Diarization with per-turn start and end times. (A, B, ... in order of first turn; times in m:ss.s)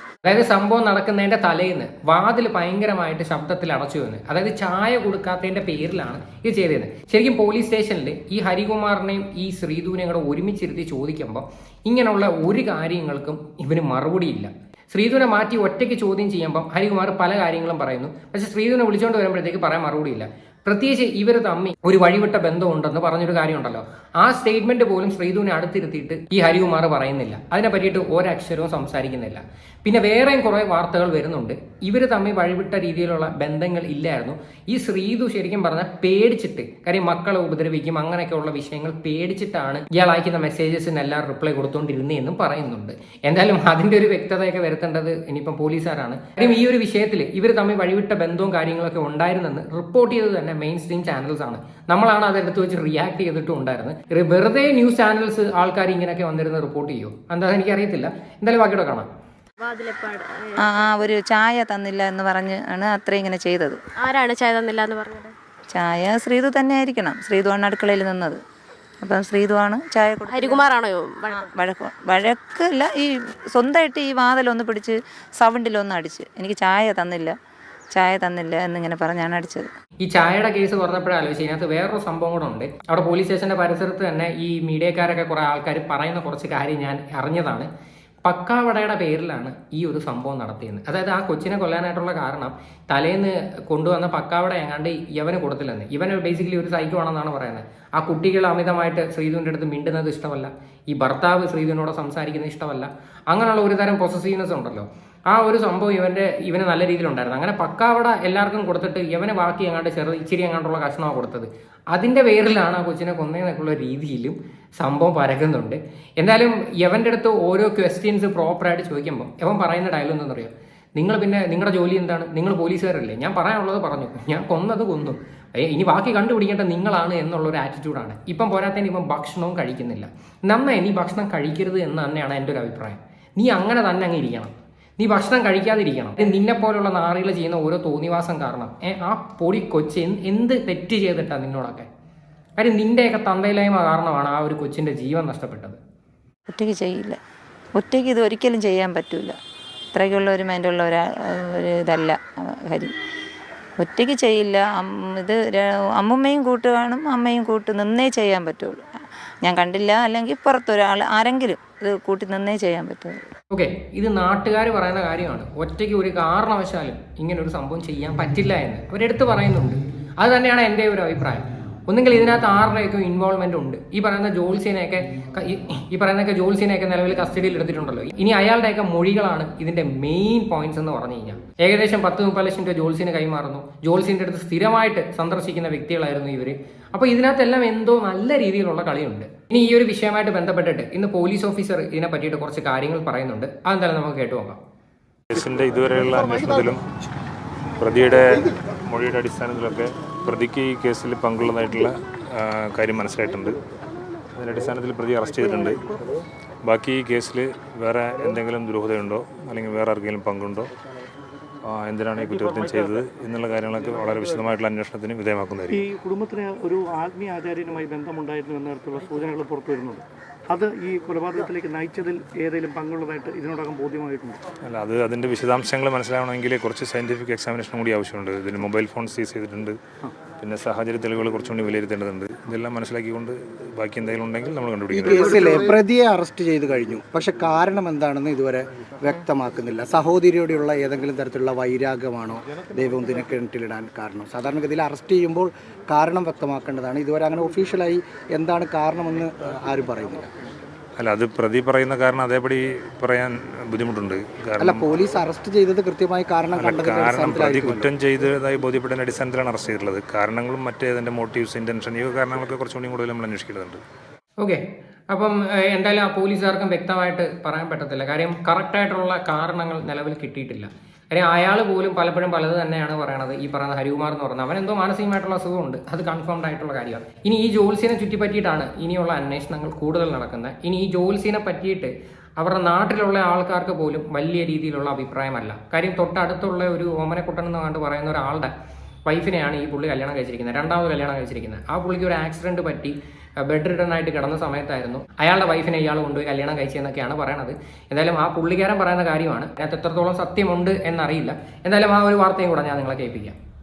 0:00.2-0:59.1 A
0:59.6-1:00.7 B
1:00.7-1:03.8 C
1:04.0-1:05.3 B
1:05.8-1:08.4 C
1:09.1-1:10.6 C
1:10.3-1:11.5 B
1:11.6-1:12.7 C
1:13.6-1:17.3 C
1:18.0-1:19.6 C
1:20.0-1:27.7 A
1:28.2-2:21.9 A
2:22.6-2:25.8 A
2:26.6-2:27.2 C
2:27.8-2:29.3 C
2:30.0-2:31.0 C
2:31.9-2:32.2 C
2:33.8-2:35.4 C
2:36.0-2:38.8 C
2:39.5-2:43.1 C
2:43.5-3:14.6 A
3:15.3-3:16.8 D
3:17.8-3:23.6 D
3:24.4-3:25.8 D
3:26.6-3:30.7 D
3:31.6-3:35.8 D
3:32.2-3:32.8 E
3:35.7-3:44.4 E
3:44.6-3:49.8 D
3:50.4-3:55.6 D
3:54.9-4:10.3 F
4:11.0-4:14.9 D
4:14.6-4:18.0 F
4:16.5-4:23.8 D
4:25.1-4:48.5 A
4:49.1-4:52.9 A
4:53.5-5:03.4 A